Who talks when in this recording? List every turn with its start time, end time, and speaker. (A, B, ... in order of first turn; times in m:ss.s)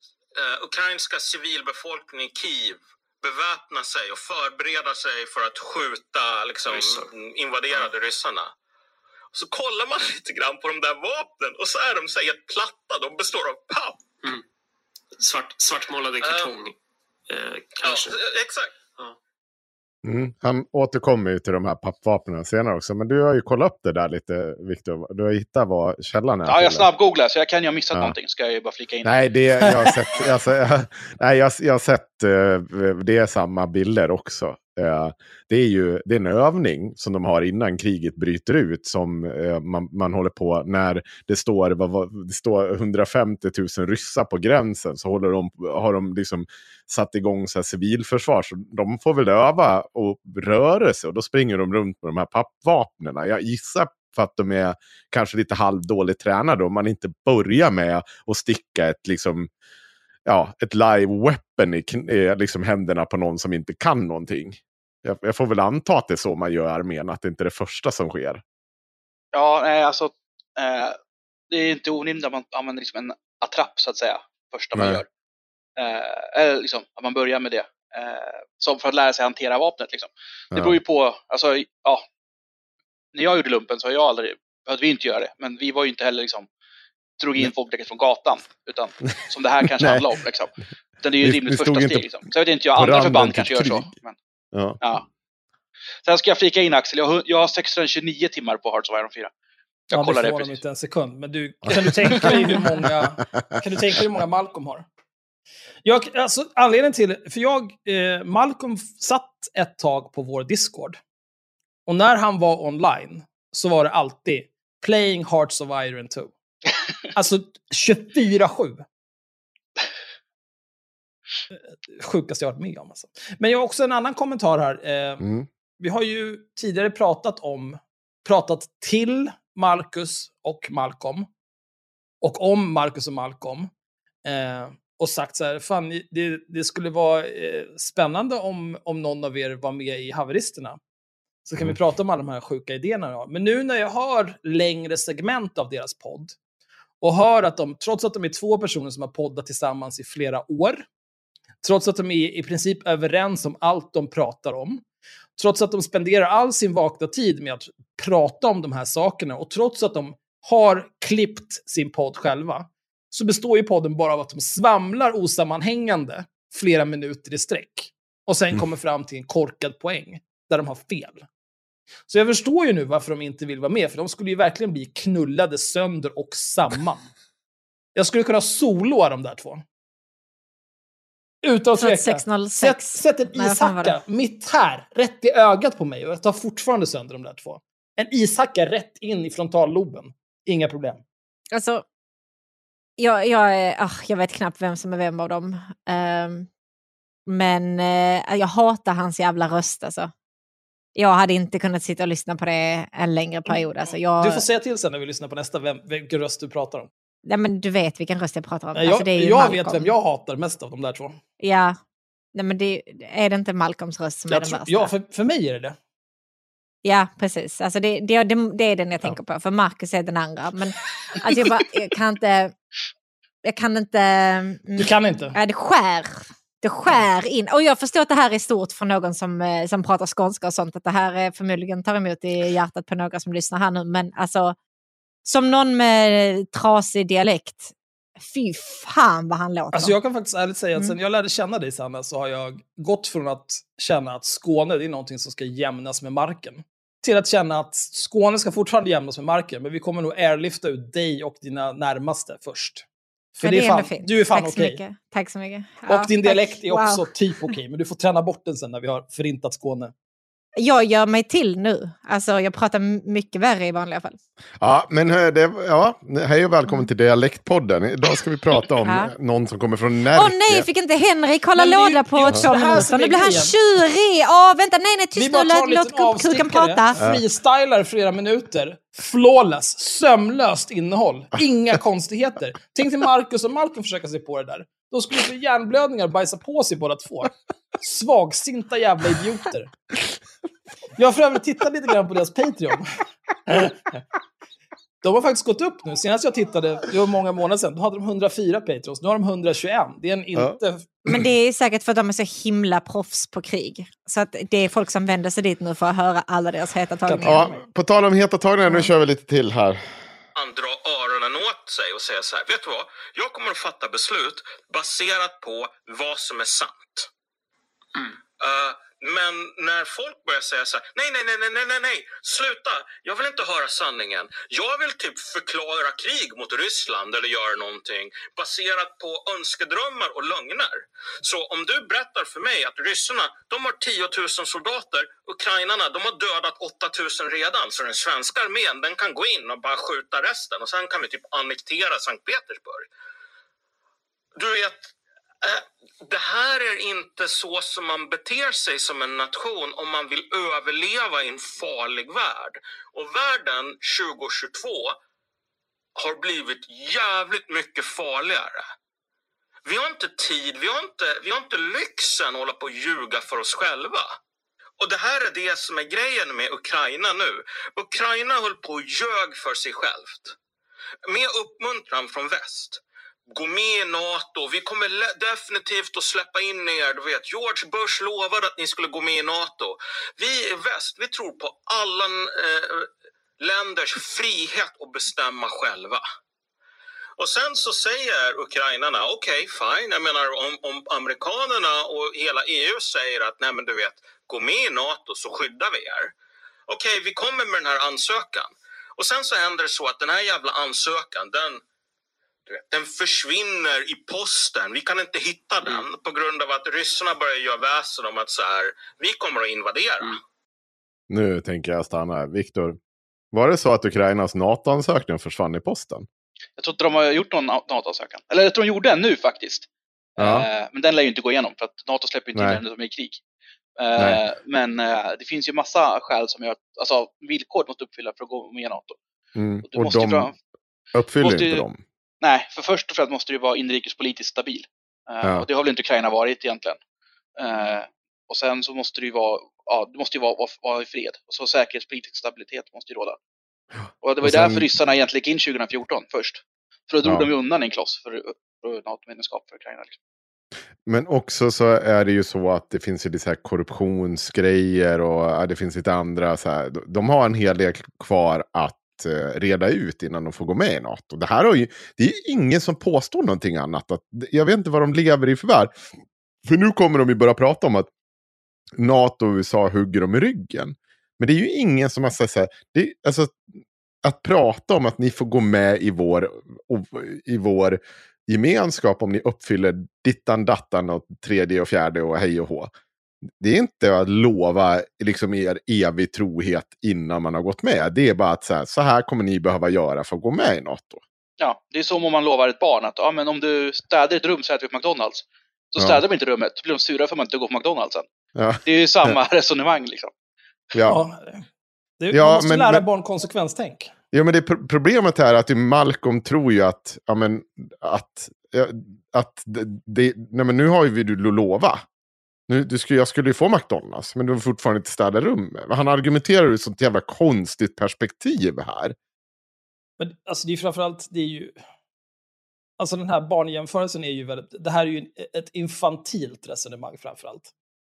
0:00.4-0:08.5 A
0:06.7-0:07.1 B
0:09.3-0:14.0 A
0:15.2-0:16.8 B
0:16.2-0:16.5 A
0:17.3-0:18.2 B
0:17.8-0:18.7 A
0:20.0-0:26.9 C
0:26.4-0:30.2 D
0:29.0-0:59.5 C
0:29.6-0:29.9 E
1:00.3-1:08.4 C
1:09.3-1:11.0 D
1:11.5-1:15.1 D
1:14.8-1:15.0 C
1:15.8-1:22.1 D
1:20.5-1:20.8 C
1:23.1-1:26.5 D
1:27.2-1:34.2 D
1:29.8-1:30.1 C
1:31.2-1:32.1 C
1:32.7-1:33.9 C
1:34.5-1:34.8 C
1:34.8-1:35.1 D
1:36.0-1:39.3 D
1:39.9-1:40.6 D
1:39.9-1:44.9 E
1:41.7-1:42.3 C
1:45.8-1:51.0 E
1:51.9-1:56.3 E
1:57.1-1:58.8 E
2:01.9-2:05.2 E
2:05.2-2:05.5 C
2:05.8-2:11.3 E
2:12.2-2:13.7 E
2:14.2-2:20.8 E
2:21.4-2:26.4 E
2:27.0-2:30.9 E
2:31.6-2:34.8 E
2:35.4-2:51.3 E
2:52.1-2:57.1 E
2:58.0-2:59.6 E
3:01.4-3:11.0 E
3:01.8-3:04.0 F
3:11.5-3:11.8 F
3:13.0-3:16.5 F
3:17.3-3:20.1 F
3:21.0-3:24.4 F
3:24.2-3:26.9 E
3:27.3-3:29.9 F
3:28.8-3:31.2 E
3:31.4-3:31.8 F
3:32.4-3:34.9 F
3:34.3-3:35.8 E
3:36.8-3:42.5 F
3:43.4-3:54.6 F
3:44.8-3:45.4 E
3:55.2-4:00.0 F
3:59.7-4:12.8 E
4:13.4-4:14.8 E
4:13.4-4:17.1 F
4:15.9-4:19.9 E
4:20.6-4:24.2 F
4:24.6-4:30.7 C
4:28.8-4:29.1 F
4:30.1-4:37.0 F
4:31.6-4:33.6 E
4:35.2-4:49.7 E
4:51.0-4:52.9 E
4:53.5-4:53.8 E
4:55.0-5:01.0 E
5:01.1-5:07.6 F
5:07.1-5:07.5 E
5:07.2-5:09.9 C
5:10.4-5:17.1 A
5:18.4-5:42.9 A
5:44.4-5:55.0 A
5:56.0-5:58.7 A
5:59.6-6:04.2 A
6:04.8-6:10.4 A
6:11.1-6:26.0 A
6:27.2-6:36.1 A
6:36.7-6:41.6 A
6:42.5-6:50.2 A
6:51.1-6:52.8 C
6:53.3-6:56.1 C
6:56.6-7:03.2 D
7:00.2-7:00.5 C
7:02.4-7:02.6 C
7:03.8-7:09.0 D
7:09.4-7:10.3 C
7:09.6-7:10.4 D
7:10.9-7:11.8 C
7:11.2-7:11.7 D
7:12.2-7:16.8 D
7:17.4-7:23.2 D
7:24.0-7:30.0 D
7:24.2-7:24.7 C
7:27.0-7:27.3 C
7:30.9-7:45.7 C
7:46.4-7:47.9 C
7:48.8-7:53.4 C
7:54.0-8:02.7 C
8:03.4-8:11.0 C
8:11.4-8:18.1 D
8:18.4-8:19.1 C
8:18.6-8:20.1 D
8:20.7-8:21.0 C
8:20.9-8:21.4 E
8:22.0-8:23.9 E
8:22.1-8:22.8 C
8:24.1-8:31.8 C
8:32.5-8:39.0 C
8:40.0-8:41.6 E
8:42.8-8:47.5 E